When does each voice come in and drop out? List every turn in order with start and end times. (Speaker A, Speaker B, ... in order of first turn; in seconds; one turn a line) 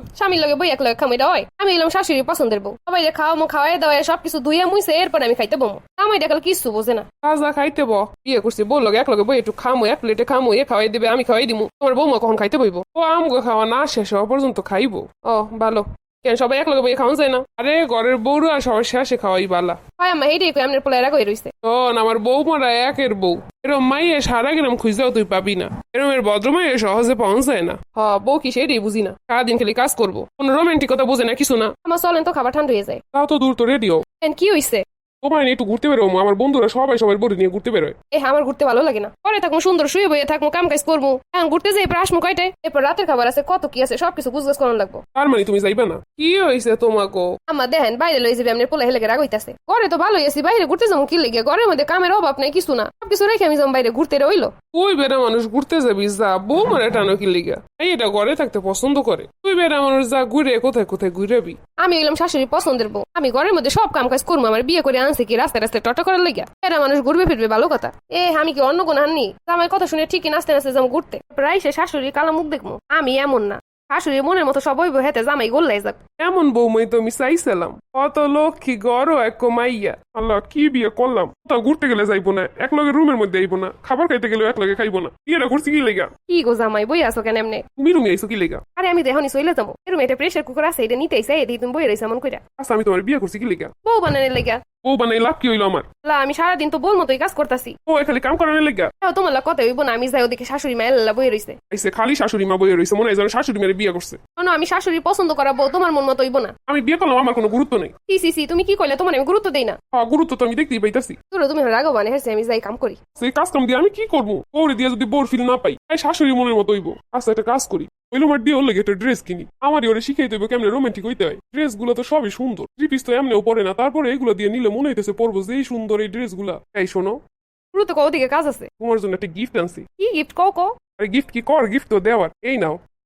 Speaker A: 0.1-7.2
Speaker B: 7.2-19.8
Speaker A: 19.9-21.6
Speaker B: 21.6-27.9
Speaker A: 27.9-29.3
Speaker B: 29.1-31.7
Speaker A: 31.8-33.0
Speaker B: 33.1-34.0
Speaker A: 34.2-34.8
Speaker B: 35.2-37.9
Speaker A: 38.1-45.0
Speaker B: 45.1-47.4
Speaker A: 47.5-54.6
Speaker B: 54.7-61.6
Speaker A: 61.8-76.0
Speaker B: 76.2-86.1
Speaker A: 86.3-87.7
Speaker B: 87.8-88.6
Speaker A: 88.7-92.4
Speaker B: 92.6-93.7
Speaker A: 93.8-94.6
Speaker B: 94.8-95.8
Speaker A: 96.0-97.8
Speaker B: 97.9-98.9
Speaker A: 99.0-101.6
Speaker B: 101.7-104.2
Speaker A: 104.4-106.5
Speaker B: 106.7-107.9
Speaker A: 108.1-109.8
Speaker B: 109.9-111.2
Speaker A: 111.3-113.0
Speaker B: 113.2-127.2
Speaker A: 127.7-128.7
Speaker B: 128.8-129.8
Speaker A: 130.0-130.8
Speaker B: 131.0-132.8